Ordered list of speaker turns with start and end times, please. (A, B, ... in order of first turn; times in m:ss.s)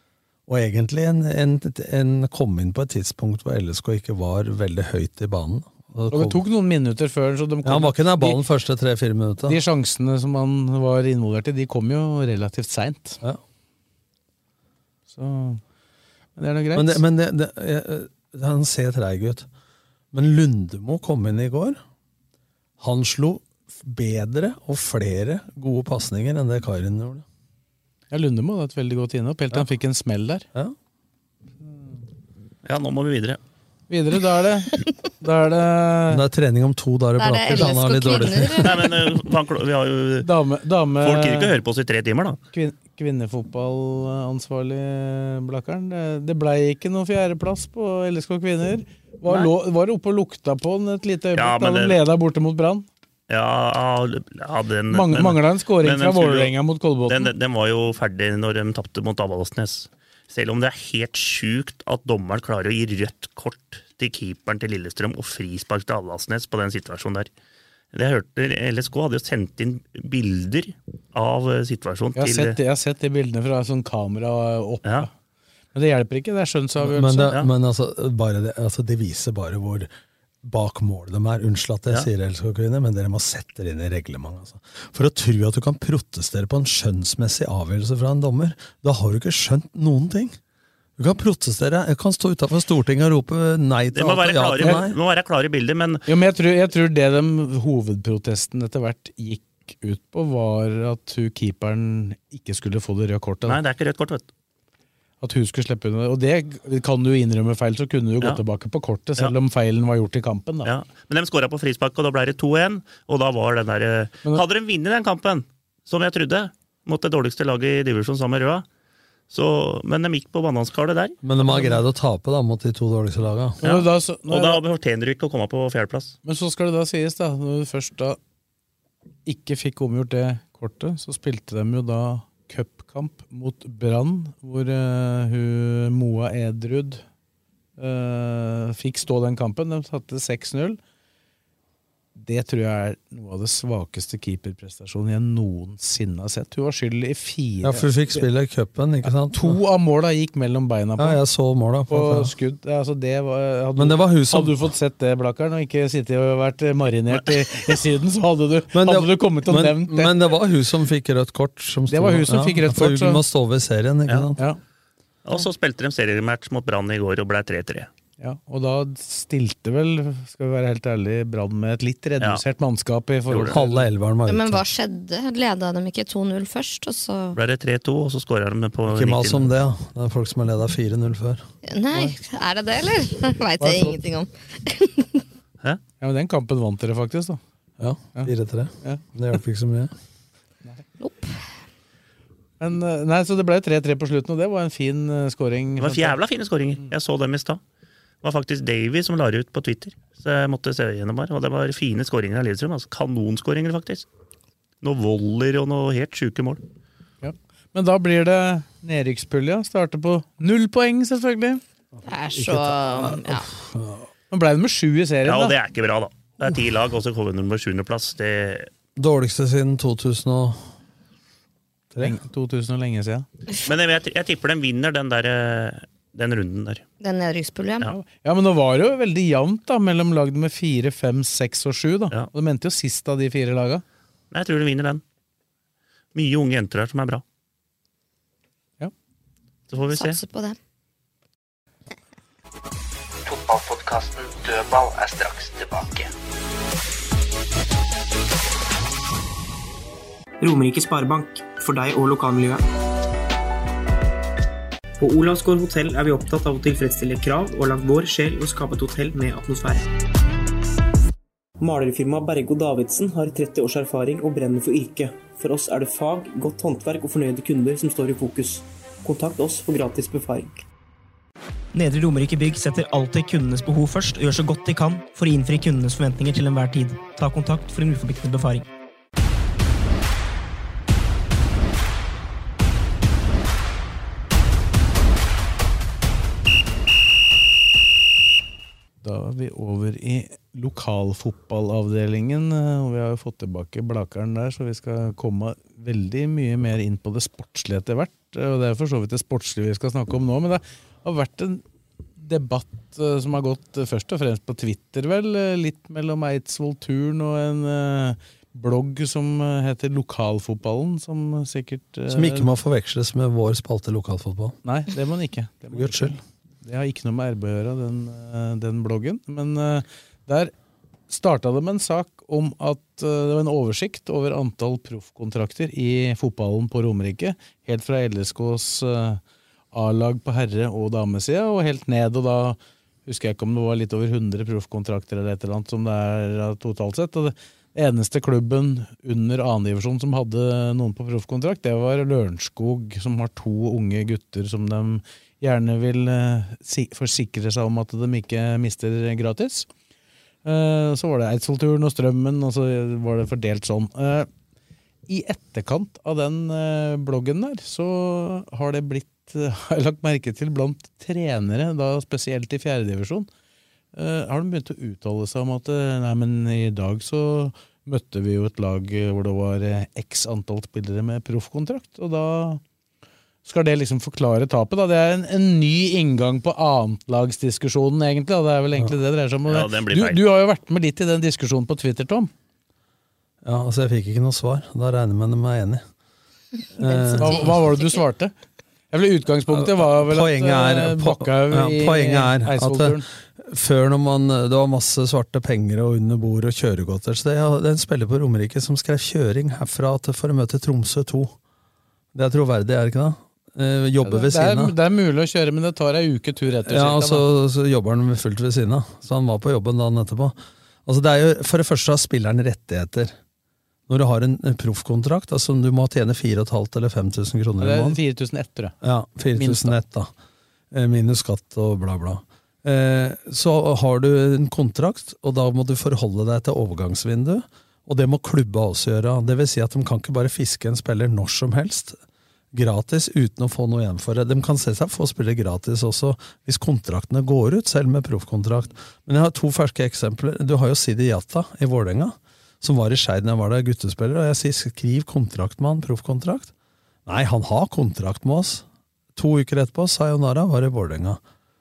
0:00.5-0:06.4 A
0:06.1-0:08.4 B
0:07.6-0:09.6 A
0:09.5-0:13.2 B
0:15.1-0:15.6 B
0:16.4-0:17.0 B
0:16.7-0:19.5 A
0:20.1-0:21.8 A
0:22.8-0:27.2 A
0:28.1-0:30.4 B
0:31.6-0:32.0 B
0:32.6-0:33.4 C
0:33.9-0:36.2 B
0:36.1-0:38.9 A
0:37.2-0:38.8 D
0:38.6-0:40.3 C
0:40.2-0:41.5 B
0:41.0-0:42.4 C
0:42.5-0:52.9 B
0:51.3-0:52.0 C
0:53.3-0:56.5 C
0:54.9-0:57.3 B
0:57.1-1:07.3 C
1:07.9-1:12.6 C
1:12.2-1:15.1 B
1:15.7-1:17.3 B
1:16.8-1:19.9 A
1:20.4-1:30.4 A
1:31.0-1:35.0 A
1:33.9-1:36.0 C
1:36.1-1:43.6 B
1:43.4-1:44.3 C
1:45.2-1:50.7 B
1:50.6-1:58.6 C
1:59.3-2:01.2 C
2:01.2-2:03.6 A
2:01.5-2:01.7 B
2:03.6-2:04.6 B
2:03.6-2:06.1 C
2:06.2-2:08.2 B
2:09.2-2:17.0 B
2:17.8-2:20.8 B
2:22.2-2:28.2 B
2:27.6-2:29.6 A
2:29.3-2:31.2 B
2:31.0-2:32.3 A
2:31.9-2:40.2 B
2:33.8-2:34.7 A
2:38.7-2:44.4 A
2:41.9-2:43.2 B
2:45.2-2:47.9 C
2:48.2-2:53.9 B
2:53.3-2:53.6 C
2:53.5-2:54.6 A
2:54.3-2:57.4 D
2:57.3-2:59.5 C
2:58.9-3:01.4 A
3:01.6-3:05.2 D
3:03.6-3:04.0 A
3:06.0-3:07.4 B
3:07.8-3:09.9 A
3:11.0-3:11.4 D
3:12.6-3:16.2 B
3:15.8-3:17.6 C
3:18.2-3:24.0 C
3:24.8-3:26.6 C
3:27.2-3:31.6 B
3:32.0-3:33.5 D
3:32.3-3:34.1 A
3:34.3-3:35.6 B
3:35.2-3:38.7 C
3:39.0-3:40.6 A
3:41.9-3:42.2 A
3:42.0-3:43.3 B
3:43.6-3:46.8 C
3:47.0-3:47.9 D
3:47.9-3:53.8 B
3:54.3-3:55.0 C
3:56.1-3:57.2 C
3:59.7-4:00.2 C
3:59.9-4:00.6 D
4:03.2-4:06.1 E
4:10.4-4:12.6 F
4:15.0-4:19.8 F
4:21.6-4:30.6 F
4:31.7-4:38.6 G
4:49.0-5:01.6 B
5:02.2-5:12.5 B
5:12.1-5:14.6 A
5:14.6-5:20.5 B
5:15.7-5:16.2 A
5:21.1-5:29.2 B
5:29.7-5:49.7 B
5:50.4-5:54.3 B
5:55.1-6:03.3 B
6:03.9-6:12.6 B
6:13.4-6:22.3 B
6:19.4-6:20.2 C
6:23.4-6:25.8 A
6:26.8-6:27.6 A
6:26.9-6:27.1 D
6:27.2-6:28.3 B
6:28.9-6:33.0 B
6:29.5-6:41.3 A
6:42.1-6:44.8 A
6:44.0-6:47.2 B
6:46.6-6:53.1 A
6:53.9-6:58.0 A
6:57.6-6:58.7 B
6:58.8-7:00.1 A
6:59.4-6:59.8 B
7:00.7-7:12.0 A
7:12.5-7:26.5 A
7:27.0-7:28.6 A
7:29.2-7:31.2 A